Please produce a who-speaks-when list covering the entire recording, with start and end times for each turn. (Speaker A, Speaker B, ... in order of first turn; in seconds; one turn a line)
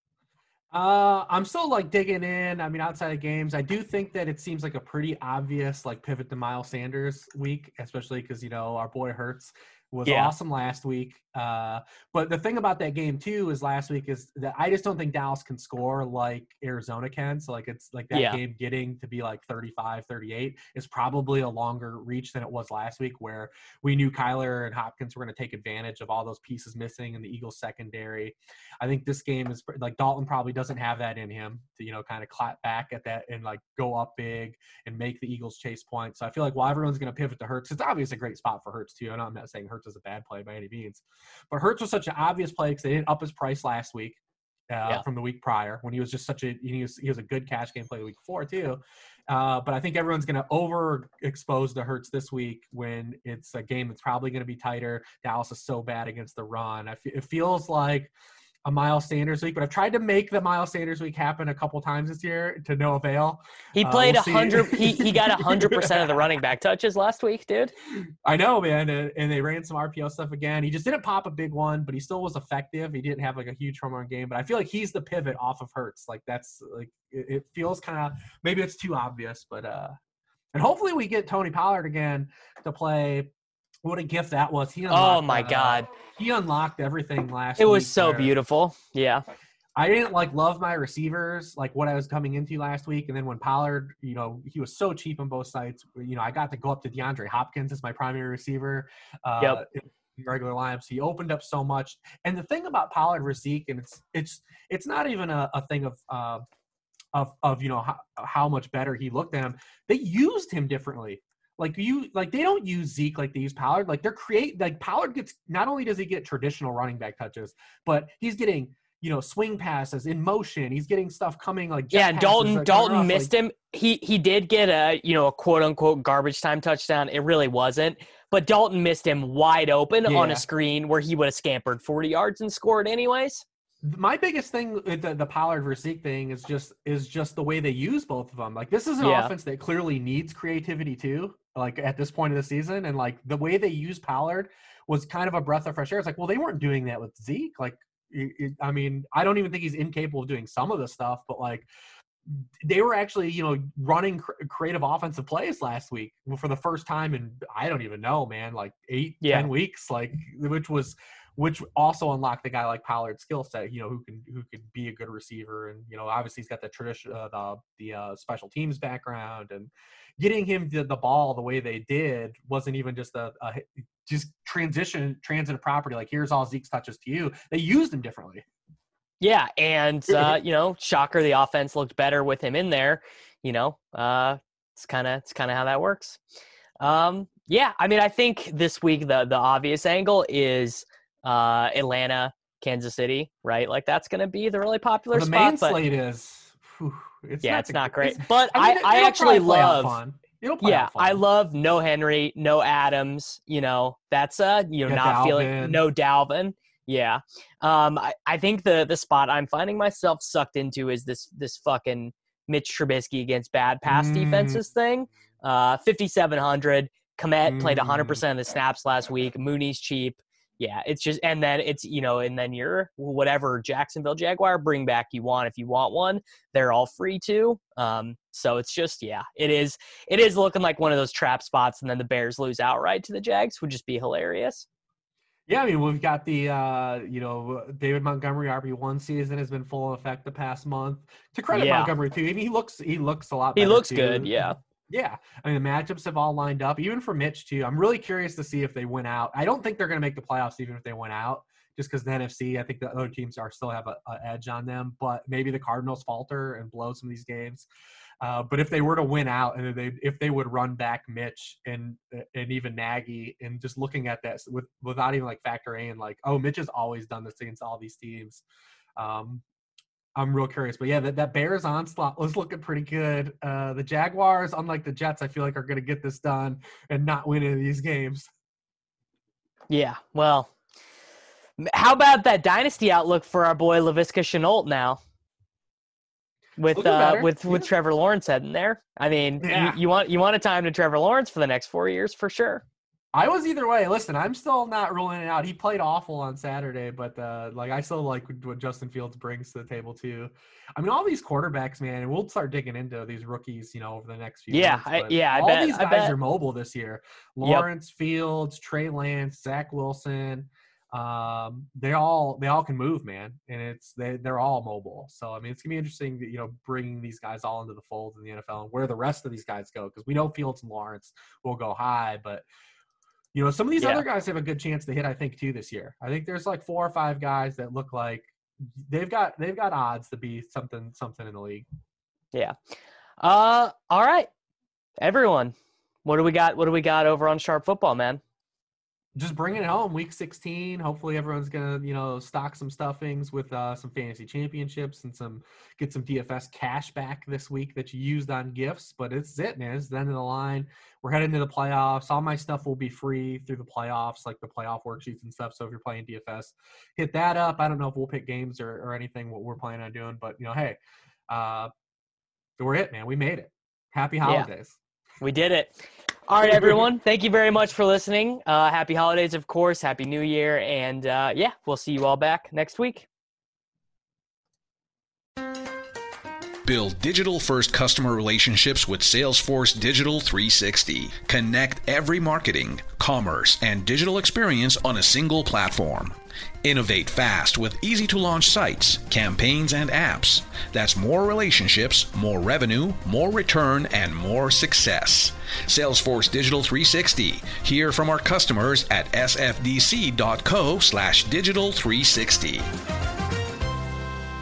Speaker A: 0.7-58.1
Speaker B: 10.1-10.3
Speaker B: 18.1-18.4
Speaker A: 58.6-66.2
Speaker B: 63.7-67.7
Speaker A: 68.2-80.0
Speaker A: 80.5-83.3
Speaker A: 83.8-88.3
Speaker B: 84.9-85.9
Speaker B: 87.6-89.2
Speaker A: 89.8-106.4
Speaker A: 107.1-123.3
Speaker B: 121.9-133.4
Speaker A: 130.0-130.4
Speaker A: 133.8-151.7
Speaker B: 139.0-139.3
Speaker A: 152.3-178.4
Speaker B: 159.2-159.5
Speaker B: 179.2-186.2
Speaker B: 186.8-195.8
Speaker A: 195.1-201.2
Speaker B: 197.4-200.0
Speaker B: 200.6-234.7
Speaker A: 204.8-205.8
Speaker A: 213.9-214.6
Speaker A: 217.4-218.2
Speaker A: 235.5-257.6
Speaker B: 241.5-241.9
Speaker B: 243.6-244.6
Speaker A: 258.2-268.4
Speaker A: 269.0-269.4
Speaker A: 270.1-278.3
Speaker B: 279.7-280.5
Speaker B: 281.6-285.0
Speaker B: 286.6-292.6
Speaker A: 286.7-287.7
Speaker A: 289.4-289.8
Speaker A: 293.1-322.4
Speaker B: 304.5-306.2
Speaker A: 323.3-331.6
Speaker B: 323.8-324.0
Speaker B: 333.2-334.3
Speaker B: 335.0-335.5
Speaker B: 336.0-338.2
Speaker A: 339.1-361.7
Speaker A: 362.6-364.8
Speaker B: 364.2-364.5
Speaker B: 365.2-373.1
Speaker A: 366.5-366.8
Speaker C: 376.6-402.6